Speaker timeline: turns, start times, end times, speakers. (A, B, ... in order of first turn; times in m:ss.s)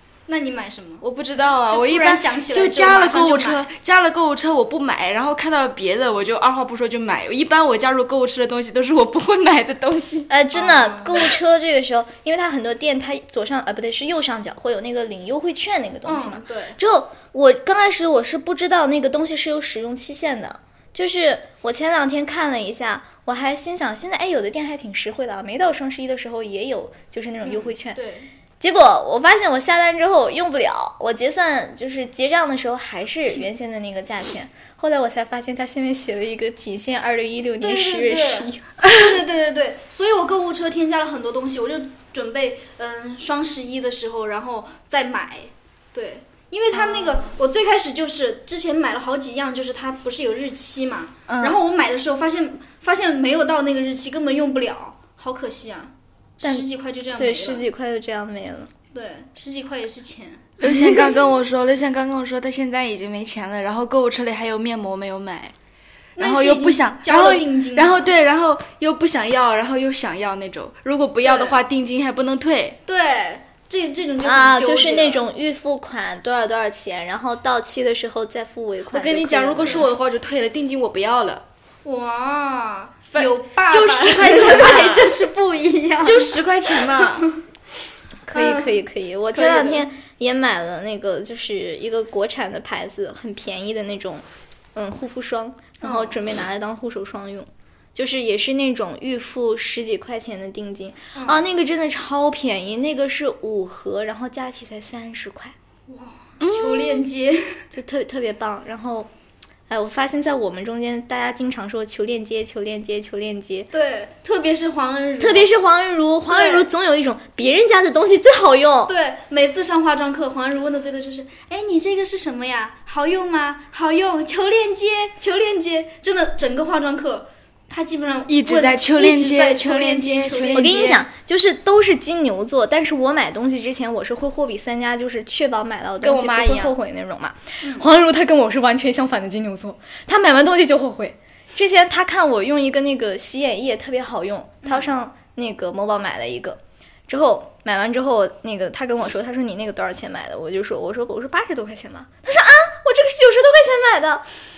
0:00.3-0:01.0 A
0:01.0-0:11.3 B
0:01.7-0:03.7 A
0:10.3-0:28.0 C
0:16.0-0:16.8 A
0:27.4-0:28.3 A
0:28.6-0:38.6 C
0:37.6-0:57.6 A
0:46.7-0:47.3 B
0:51.3-0:51.5 B
0:57.2-0:58.7 C
0:58.9-1:00.6 A
1:00.6-1:05.5 B
1:06.2-1:08.1 A
1:06.2-1:12.8 B
1:11.2-1:11.6 A
1:12.8-1:15.3 A
1:14.2-1:19.9 C
1:18.9-1:21.4 B
1:21.8-1:26.4 A
1:23.1-1:25.2 B
1:26.0-1:27.3 B
1:27.0-1:27.3 A
1:28.3-1:34.2 C
1:28.3-1:28.8 A
1:29.3-1:29.9 A
1:34.7-1:45.5 C
1:35.8-1:36.2 A
1:41.1-1:41.4 A
1:45.9-1:47.6 A
1:46.4-1:47.0 B
1:47.7-1:49.1 C
1:49.7-1:53.7 C
1:53.7-1:55.5 A
1:55.2-1:58.9 C
1:56.3-1:56.7 A
1:58.9-2:11.0 A
2:08.3-2:11.0 B
2:10.5-2:34.2 C
2:16.0-2:16.7 B
2:17.6-2:17.9 A
2:24.6-2:24.9 A